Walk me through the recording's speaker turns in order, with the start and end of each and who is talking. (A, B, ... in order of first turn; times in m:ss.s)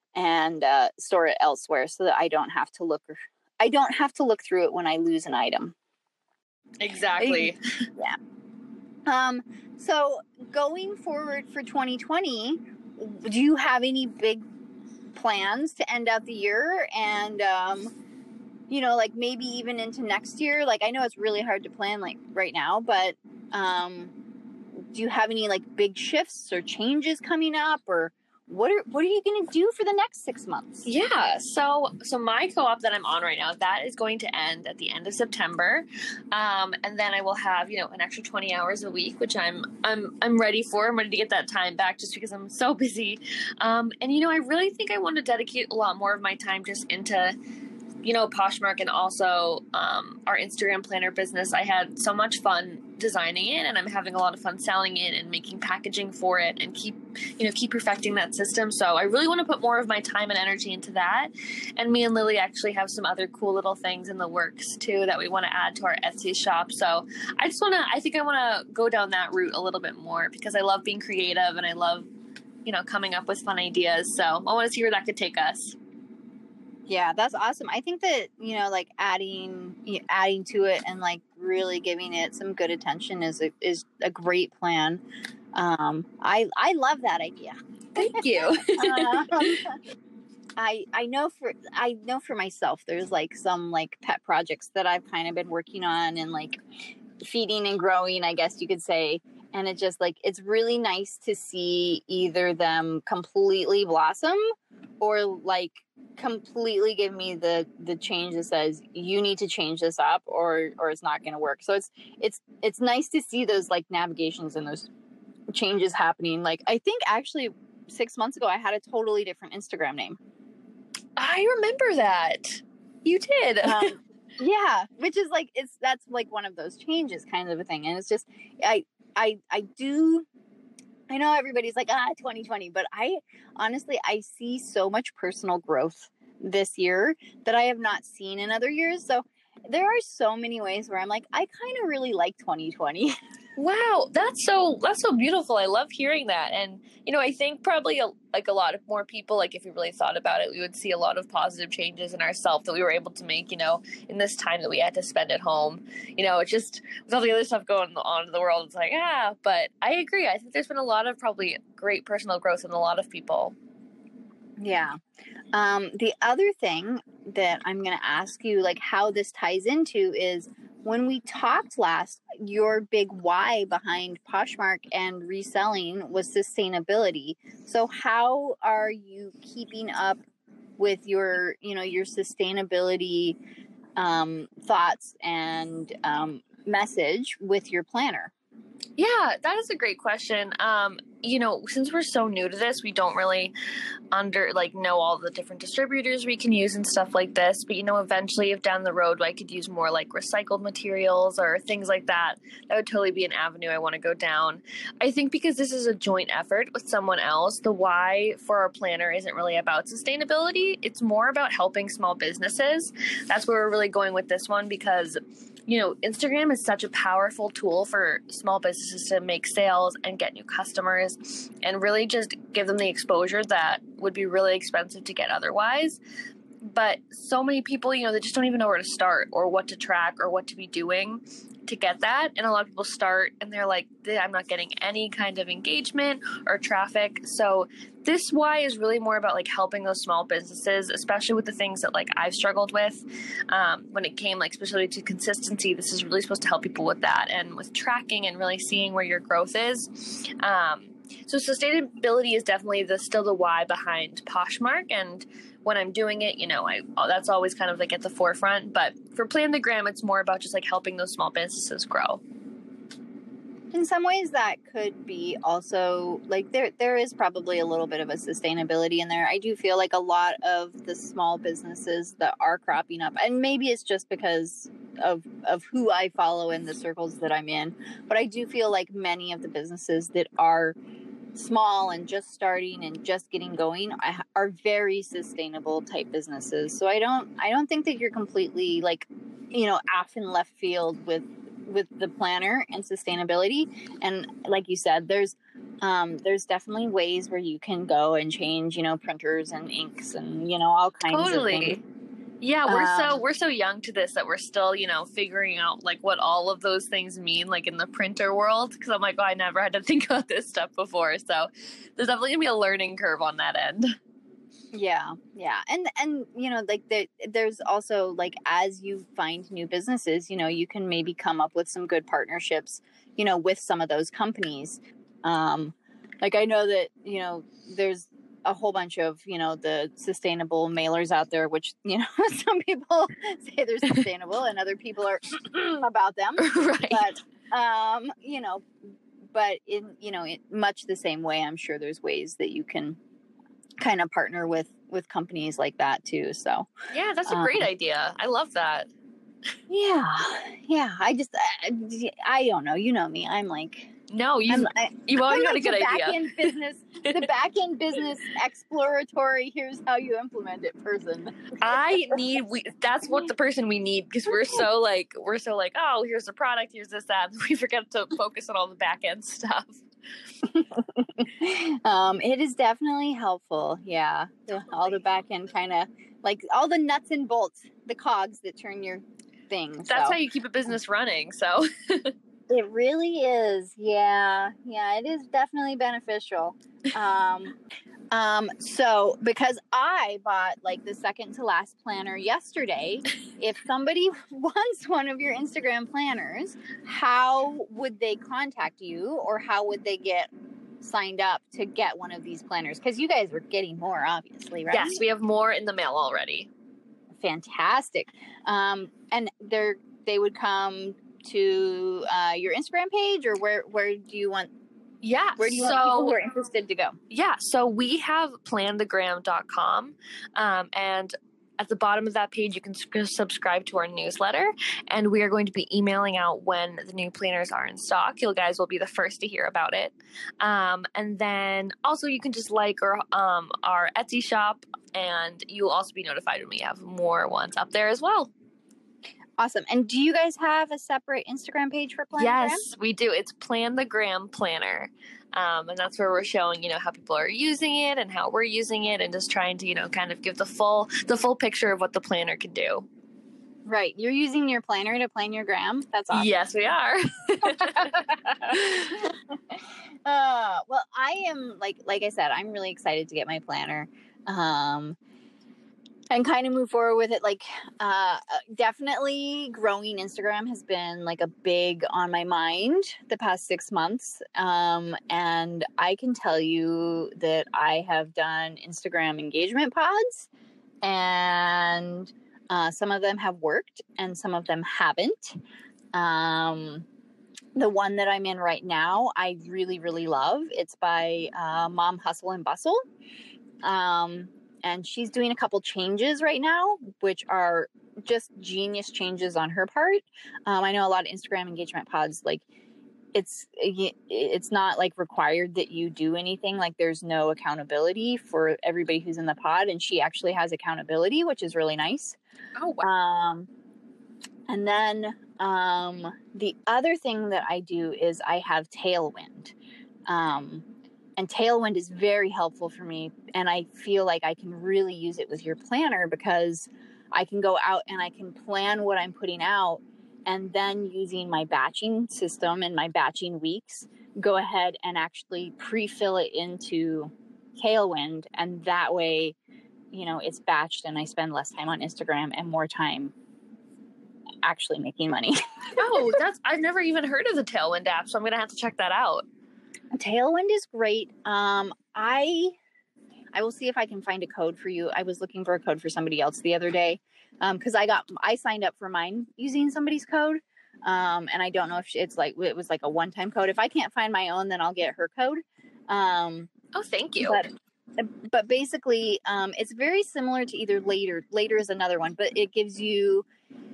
0:00.2-0:05.8 A
0:06.8-0:07.6 B
0:07.2-0:08.2 A
0:09.1-0:14.4 A
0:15.1-0:17.9 A
0:18.7-0:24.1 A
0:24.8-0:30.9 A
0:30.8-0:47.4 B
0:48.0-1:12.1 B
1:12.6-1:15.8 B
1:16.9-1:25.0 A
1:25.5-1:29.8 A
1:28.0-1:29.6 B
1:30.6-1:36.6 A
1:37.2-1:44.4 A
1:45.0-1:54.9 A
1:55.5-2:00.2 A
2:01.2-2:03.9 B
2:03.6-2:10.3 A
2:11.1-2:23.1 A
2:23.6-2:43.6 B
2:44.6-2:45.0 A
2:45.5-3:00.2 A
3:00.8-3:03.4 A
3:04.0-3:08.3 A
3:09.0-3:13.5 B
3:14.1-3:46.0 B
3:46.6-4:22.2 B
4:23.7-4:40.8 A
4:41.4-5:01.8 A
5:01.1-5:01.8 B
5:02.4-5:13.9 B
5:02.7-5:03.2 A
5:14.7-5:38.7 A
5:36.4-5:37.1 B
5:39.3-5:43.0 A
5:43.8-5:46.7 A
5:46.9-5:48.9 B
5:47.3-5:47.7 A
5:49.7-5:53.9 A
5:54.1-5:57.3 B
5:54.5-6:02.2 A
6:01.6-6:09.8 B
6:10.5-6:20.2 A
6:19.8-6:22.1 B
6:22.5-6:27.6 A
6:28.1-6:40.3 A
6:40.8-6:45.0 A
6:44.7-6:46.5 B
6:47.2-6:54.5 A
6:55.0-6:56.2 B
6:55.4-6:57.0 A
6:57.1-7:18.3 B
7:19.4-7:22.6 A
7:22.2-7:32.9 B
7:33.6-7:36.3 A
7:36.1-7:39.0 B
7:37.4-7:45.0 A
7:46.1-8:00.3 A
8:00.8-8:05.4 A
8:05.9-8:06.9 A
8:07.6-8:12.8 A
8:13.6-8:22.4 A
8:23.1-8:32.2 A
8:32.6-8:32.9 B
8:32.8-8:33.5 A
8:34.5-8:39.6 A
8:40.1-8:40.6 A
8:41.2-8:59.4 A
8:59.9-9:03.1 A
9:04.4-9:06.2 A
9:05.8-9:09.2 B
9:09.9-9:12.6 A
9:13.3-9:26.5 A
9:26.7-9:27.5 B
9:27.2-9:33.3 A